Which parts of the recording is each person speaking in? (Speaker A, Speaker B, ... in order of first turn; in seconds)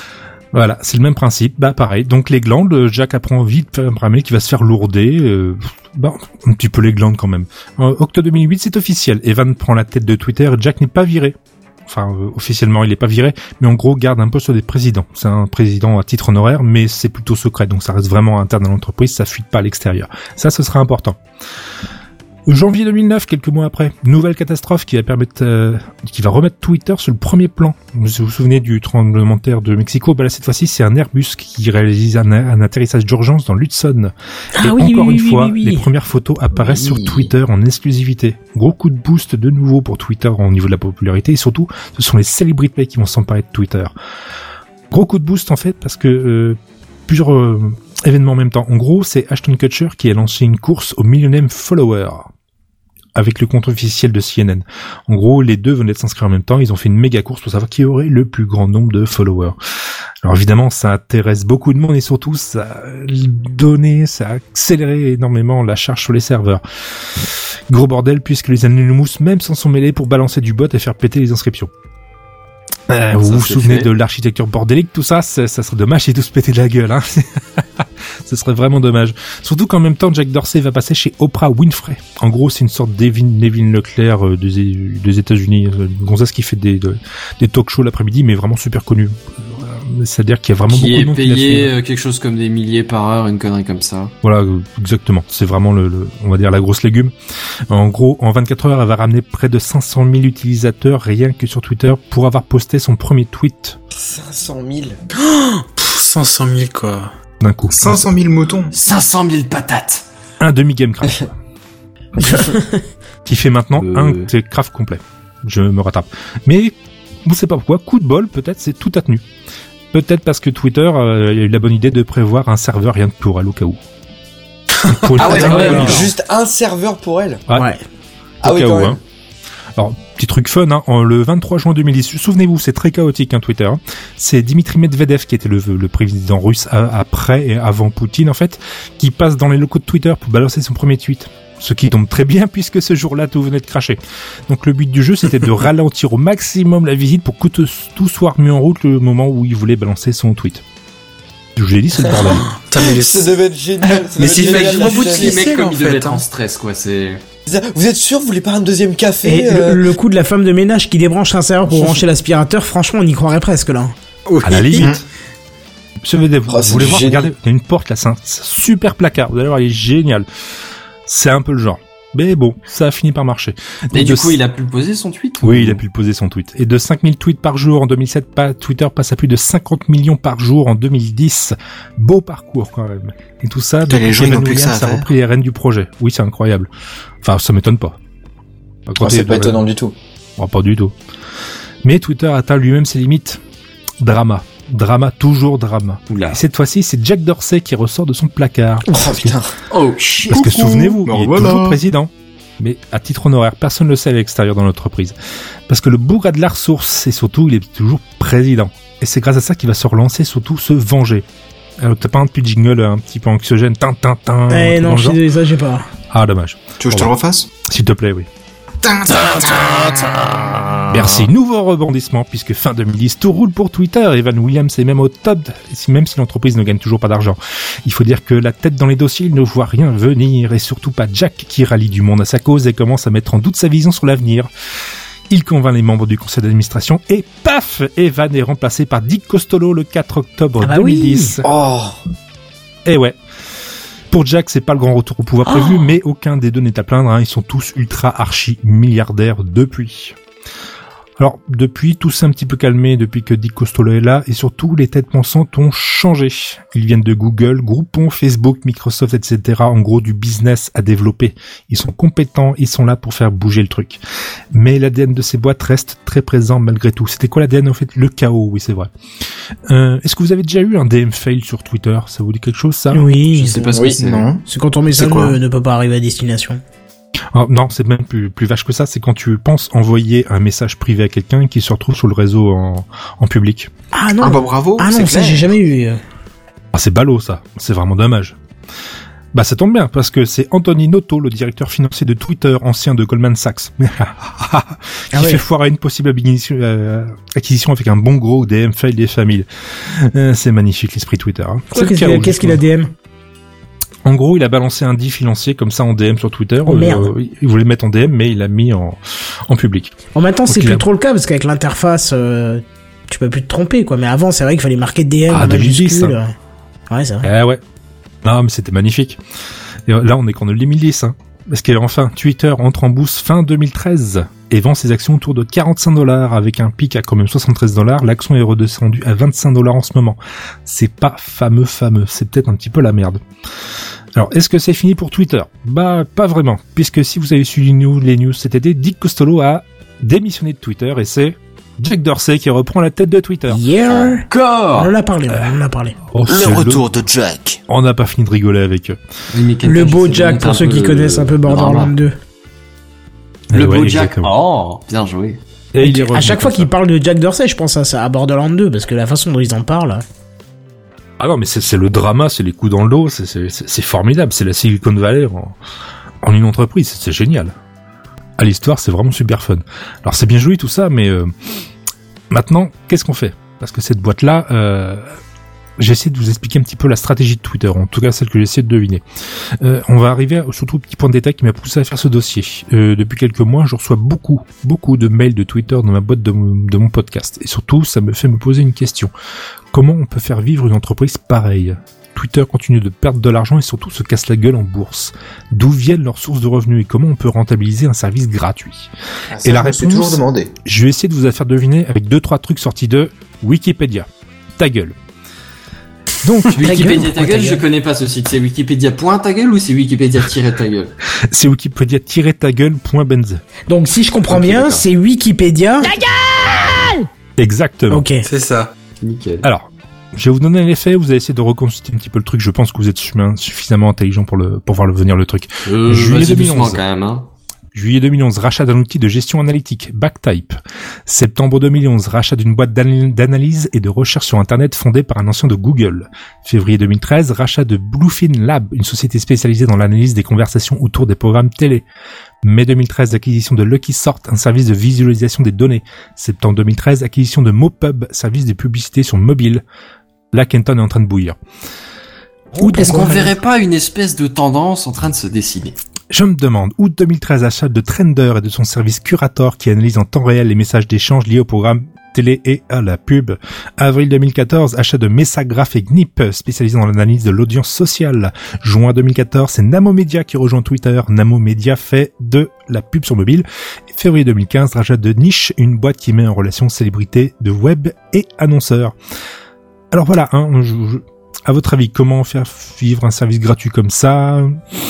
Speaker A: 0.5-11.3, 11.9-21.2, 22.5-43.9, 44.9-52.3, 53.1-59.6, 60.2-66.6, 67.2-71.7, 72.9-91.7, 94.2-97.1, 97.7-103.8, 107.4-108.1, 110.4-111.3, 113.2-119.2, 119.9-123.8, 124.8-126.1, 128.4-129.0, 129.8-150.6, 151.6-152.5, 164.4-165.0, 166.0-170.3, 171.1-174.4, 175.4-186.7, 187.2-188.0, 188.9-189.6, 190.4-190.9, 191.8-193.4, 194.0-199.3, 200.3-205.1, 205.7-211.2, 211.8-215.2, 216.1-217.1, 217.6-218.3, 220.9-234.5, 235.3-241.5, 242.8-243.2, 244.1-250.2, 251.2-264.0, 264.5-268.9, 269.7-273.0, 277.3-283.7, 286.7-288.3, 289.3-302.6, 304.0-309.9, 310.5-310.8, 315.3-316.2, 317.2-317.6, 318.2-319.2, 319.9-333.2, 334.1-343.6, 346.1-346.8, 347.7-349.0, 353.5-354.3, 355.7-356.7, 361.2-365.6, 366.2-367.5, 368.4-371.3, 372.3-375.1, 375.8-379.0, 379.6-389.1, 389.7-398.9, 399.4-404.1, 404.6-404.9, 406.2-407.1, 411.3-413.4, 417.4-418.1, 419.4-426.8, 427.7-441.8, 442.4-449.6, 450.3-451.4, 452.6-453.3, 456.1-478.9, 479.9-484.6
Speaker B: 34.6-35.9, 125.2-126.1, 127.5-127.8, 159.2-163.9, 214.5-215.9, 240.6-241.4, 272.9-273.7, 274.4-276.6, 283.9-286.0, 295.1-295.4, 301.7-302.9, 306.6-307.1, 310.1-316.3, 316.9-317.3, 343.5-346.0, 349.6-352.1, 355.8-360.0, 406.6-407.6, 413.7-416.0, 417.9-418.2, 452.6-453.3
Speaker C: 36.6-36.9, 107.7-108.7, 164.7-165.0, 183.8-185.1, 200.3-201.8, 216.8-217.5, 218.8-219.9, 274.0-275.4, 284.2-285.5, 346.2-347.6, 399.3-400.5
Speaker D: 73.2-73.9, 90.7-94.1, 108.7-110.0, 113.8-114.3, 125.2-126.1, 154.2-157.2, 164.3-164.9, 173.9-175.8, 196.1-196.4, 199.7-200.4, 219.1-221.2, 273.3-274.2, 344.3-344.9, 349.3-351.9, 353.5-355.4, 406.5-410.9, 414.3-414.8, 419.0-419.4, 425.6-427.3, 452.6-455.8
Speaker E: 103.9-105.0, 125.2-127.4, 128.4-129.0, 152.1-155.4, 157.5-159.8, 161.7-162.0, 166.5-167.3, 189.0-189.9, 198.9-199.5, 241.4-242.0, 273.7-274.0
Speaker F: 105.2-107.1, 152.7-153.3, 154.1-156.2, 418.2-418.7